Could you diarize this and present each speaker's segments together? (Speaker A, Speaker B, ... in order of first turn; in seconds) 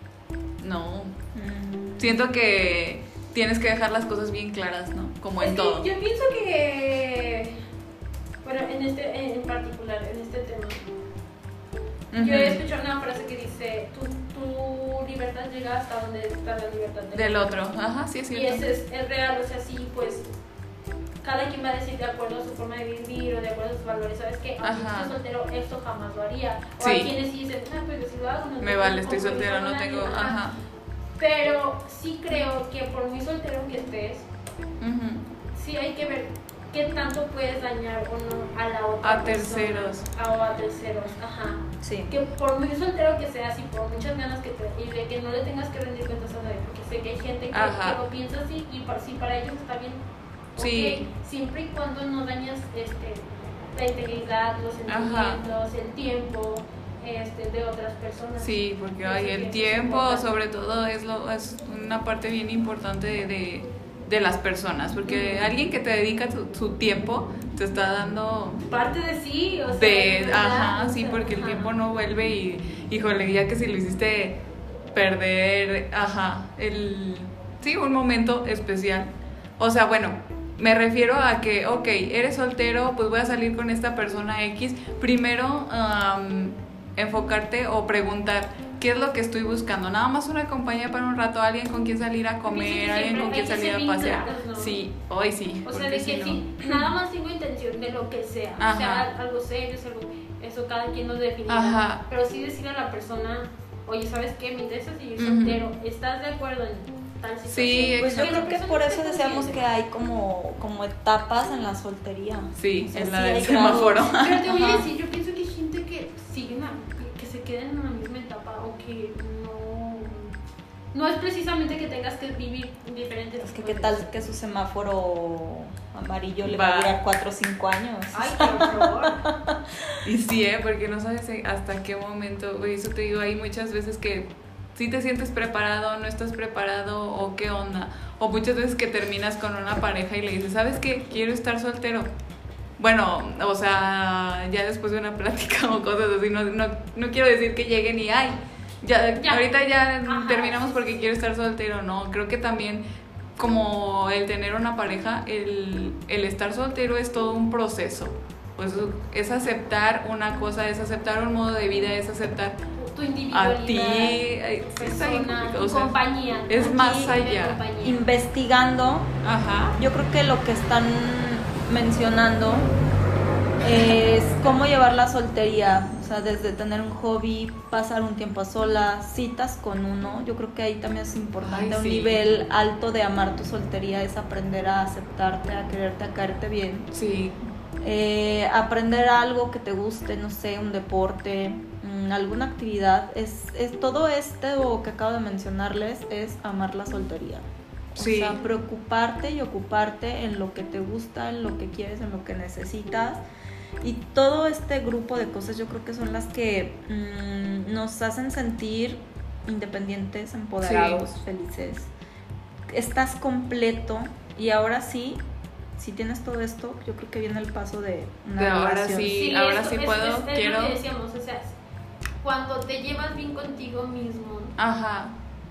Speaker A: 0.6-1.1, 2.0-5.9, 12.1-12.6, 17.1-18.6, 24.6-25.1, 26.8-27.1, 28.6-30.5, 34.8-35.3, 39.0-40.1, 47.5-48.0, 50.6-51.0, 54.9-55.4, 58.4-68.6, 69.7-74.4, 74.9-96.9, 98.6-99.1, 101.5-102.0, 105.2-105.6, 107.5-108.5, 112.6-114.8, 126.4-127.0, 130.0-142.1, 142.8-152.8, 153.4-162.6, 163.3-167.6, 169.2-169.8, 181.4-182.3, 186.9-187.3, 198.0-198.4, 210.6-211.0, 218.4-220.8, 224.6-225.1
Speaker B: 1.3-2.2, 41.8-42.1, 108.0-114.1, 123.4-130.1, 167.8-169.1, 169.8-172.7, 173.6-186.9, 187.8-203.2, 203.8-211.9, 212.7-215.2, 215.8-219.1
Speaker C: 5.4-7.6, 8.4-10.9, 12.1-17.7, 18.3-20.3, 21.2-30.4, 31.2-34.2, 35.5-50.0, 50.5-60.3, 65.1-65.5, 68.7-71.7, 92.5-94.8, 95.6-109.6, 113.1-120.3, 120.9-124.1, 128.1-129.2, 149.2-151.1, 162.8-168.0, 219.1-221.6, 222.2-224.6